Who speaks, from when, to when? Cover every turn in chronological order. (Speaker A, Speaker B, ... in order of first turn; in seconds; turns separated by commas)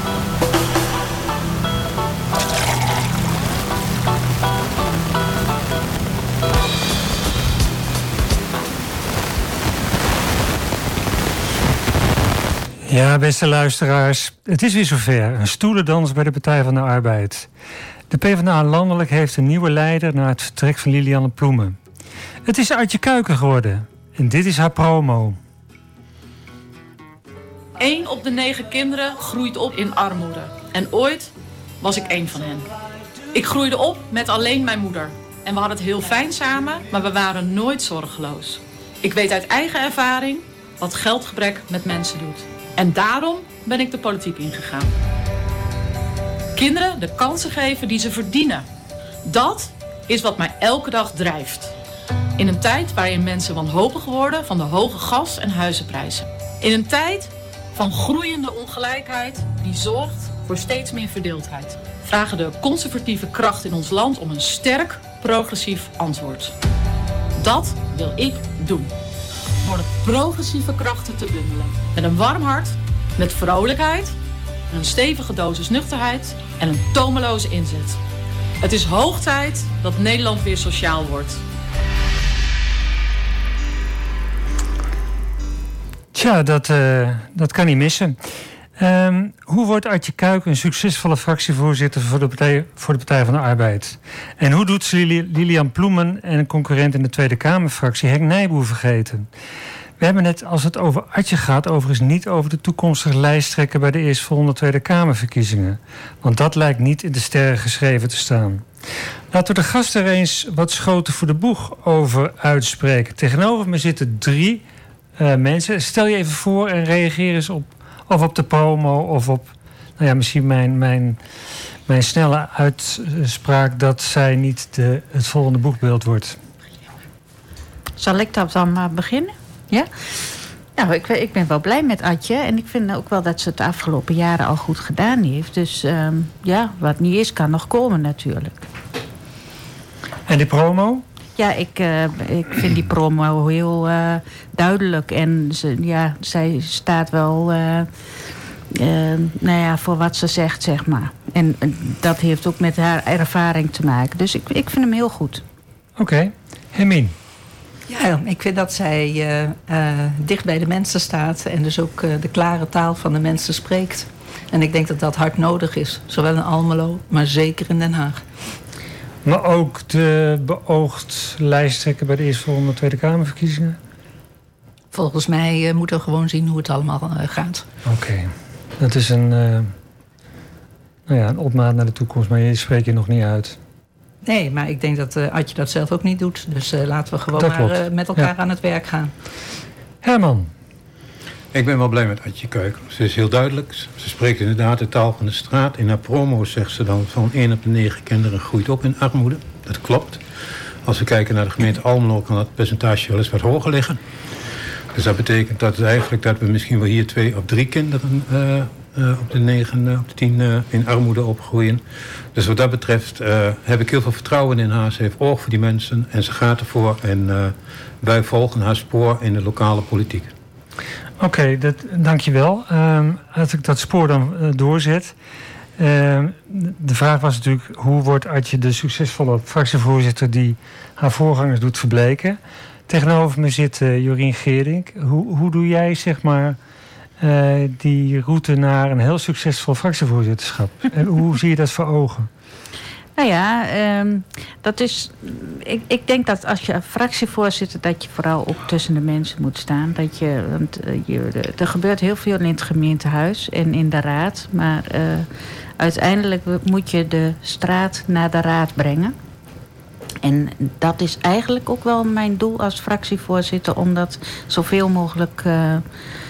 Speaker A: 12.9-17.5, Speaker A: 18.1-21.8, Speaker A: 22.4-25.4, Speaker B: 27.8-32.7, Speaker B: 33.3-44.9, Speaker B: 46.5-48.7, Speaker B: 49.2-51.7, Speaker B: 52.4-66.5, Speaker B: 67.4-68.9, Speaker B: 69.6-74.2, Speaker B: 74.7-78.0, Speaker B: 78.6-81.4, Speaker A: 86.1-88.2, Speaker A: 88.8-99.3, Speaker A: 100.0-108.7, Speaker A: 109.3-114.6, Speaker A: 115.2-121.2, Speaker A: 121.9-126.4, Speaker C: 128.0-129.9, Speaker C: 130.8-138.6, Speaker A: 140.3-141.0, Speaker C: 141.3-147.9, Speaker C: 148.7-155.4, Speaker A: 156.0-157.1, Speaker D: 157.9-168.2, Speaker A: 169.2-173.8, Speaker D: 174.9-177.7, Speaker A: 177.8-179.7, Speaker A: 181.1-183.6, Speaker D: 184.2-189.1, Speaker A: 187.4-188.3, Speaker A: 190.0-190.5, Speaker E: 191.5-200.2, Speaker E: 200.8-204.0, Speaker E: 204.9-211.8, Speaker E: 212.3-220.3, Speaker A: 221.2-225.1, Speaker A: 225.8-236.6, Speaker A: 237.2-242.3, Speaker C: 243.2-259.1, Speaker C: 260.2-265.9